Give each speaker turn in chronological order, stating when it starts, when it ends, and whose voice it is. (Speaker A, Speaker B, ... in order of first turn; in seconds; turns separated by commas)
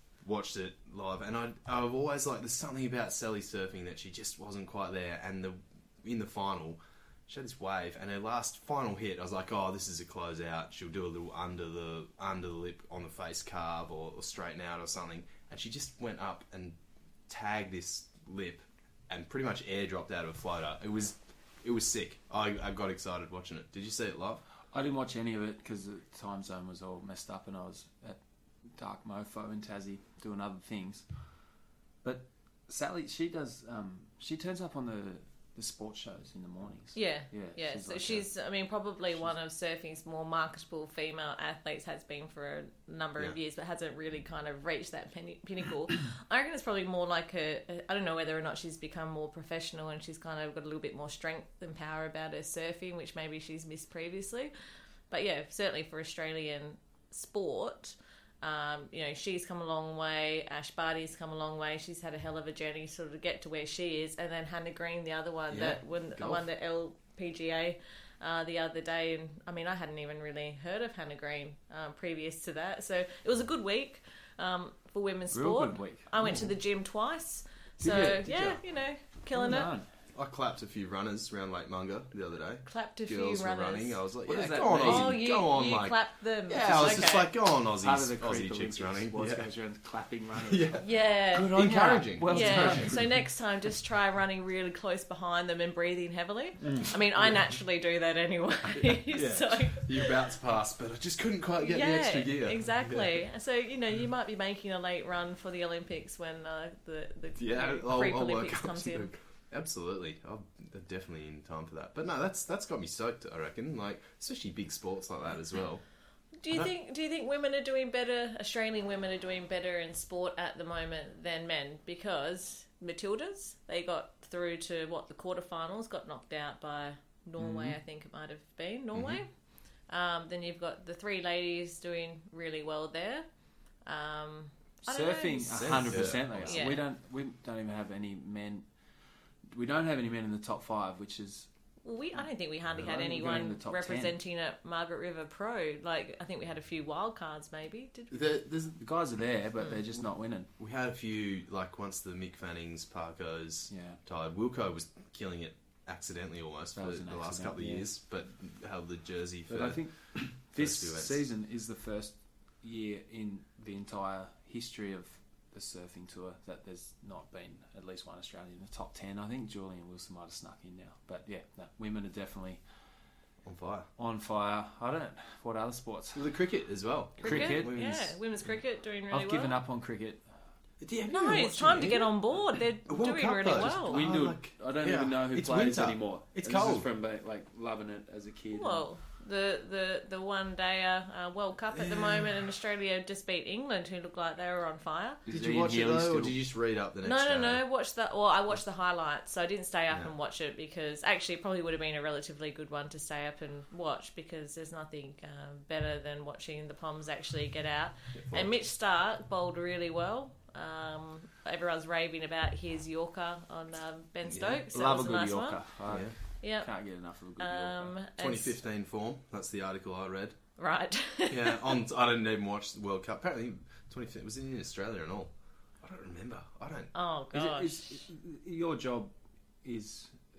Speaker A: 0.2-16.8, Speaker A: 17.3-24.4, Speaker B: 24.7-28.2, Speaker B: 28.7-31.1, Speaker B: 32.0-38.2, Speaker C: 36.9-54.5, Speaker C: 55.1-79.7, Speaker A: 65.5-66.5, Speaker B: 75.3-76.3, Speaker A: 77.9-78.6, Speaker B: 79.3-79.9, Speaker A: 80.1-89.5, Speaker C: 82.7-84.0, Speaker B: 84.2-85.2, Speaker C: 84.7-87.3, Speaker B: 86.5-87.2, Speaker B: 87.8-90.8, Speaker A: 90.5-93.1, Speaker C: 90.8-100.1, Speaker B: 91.5-93.2, Speaker B: 96.6-96.9, Speaker A: 99.1-103.2, Speaker C: 101.6-109.1, Speaker A: 107.4-115.8, Speaker C: 116.4-129.3, Speaker B: 127.4-127.8, Speaker A: 128.9-129.2, Speaker C: 129.9-133.2, Speaker C: 133.9-136.8, Speaker B: 134.8-138.7, Speaker A: 135.5-136.7, Speaker B: 139.5-141.5, Speaker C: 141.8-148.2, Speaker B: 142.8-144.2, Speaker A: 148.1-148.8, Speaker B: 148.8-150.5, Speaker A: 150.6-161.2, Speaker B: 153.7-154.0, Speaker B: 156.8-157.9, Speaker B: 159.5-172.6, Speaker A: 173.4-173.9, Speaker B: 174.0-176.3, Speaker A: 176.2-178.1, Speaker C: 177.2-179.5, Speaker B: 177.2-177.9, Speaker B: 179.1-180.2, Speaker A: 180.8-182.2, Speaker C: 181.1-184.0, Speaker A: 182.9-186.9, Speaker B: 183.5-188.9, Speaker C: 188.5-195.2, Speaker A: 191.7-192.3, Speaker B: 195.2-196.4, Speaker A: 195.3-197.6, Speaker C: 197.0-215.6, Speaker A: 208.2-208.5, Speaker A: 214.3-214.6, Speaker B: 214.7-218.0, Speaker C: 216.4-216.7, Speaker C: 217.4-218.5, Speaker A: 218.2-220.4, Speaker C: 220.6-221.8, Speaker A: 221.3-226.9, Speaker C: 226.9-228.0, Speaker B: 227.3-229.1, Speaker B: 229.6-230.2